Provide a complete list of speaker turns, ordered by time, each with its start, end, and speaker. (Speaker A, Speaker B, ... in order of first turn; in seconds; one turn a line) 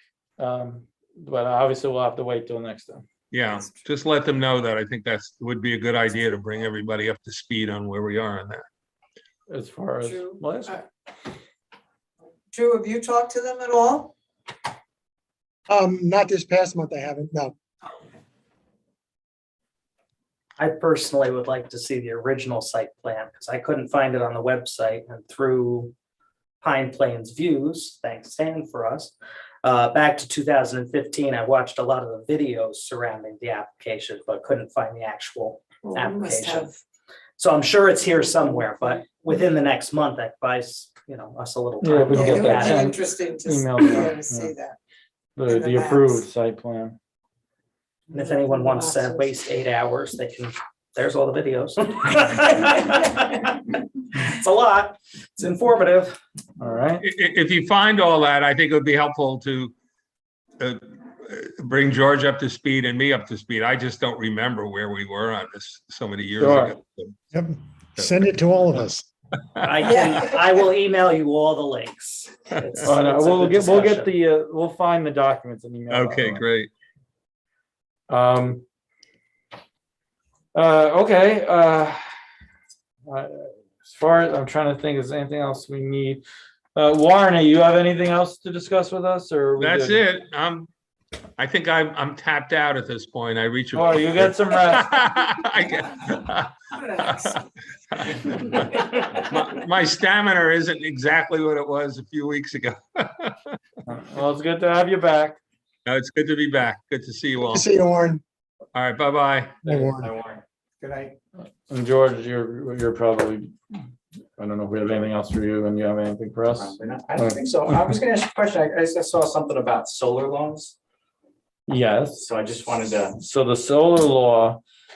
Speaker A: 0.4-3.0
Speaker B: 3.3-8.7
Speaker A: 9.5-10.8
Speaker C: 10.0-10.4
Speaker C: 12.5-14.1
Speaker D: 15.7-17.6
Speaker E: 20.6-25.9
Speaker E: 26.6-36.7
Speaker C: 35.8-36.7
Speaker E: 37.4-42.9
Speaker A: 41.8-44.5
Speaker C: 42.1-44.8
Speaker A: 45.4-47.0
Speaker C: 45.5-46.2
Speaker E: 48.1-56.2
Speaker A: 56.6-57.0
Speaker B: 57.0-59.7
Speaker B: 60.6-67.2
Speaker A: 66.4-66.8
Speaker D: 67.3-69.0
Speaker E: 69.6-74.1
Speaker C: 69.8-70.2
Speaker A: 72.8-76.4
Speaker B: 75.9-76.7
Speaker A: 78.1-78.6
Speaker A: 80.5-82.0
Speaker A: 83.1-86.2
Speaker A: 86.8-90.0
Speaker B: 89.6-90.7
Speaker B: 91.4-103.5
Speaker A: 93.7-95.0
Speaker A: 103.9-105.4
Speaker B: 105.9-107.7
Speaker D: 107.5-108.2
Speaker B: 108.8-109.7
Speaker F: 109.6-111.2
Speaker D: 109.7-110.1
Speaker A: 111.7-113.5
Speaker A: 114.4-117.4
Speaker F: 116.5-120.8
Speaker A: 121.7-122.3
Speaker F: 122.2-123.2
Speaker A: 123.2-124.6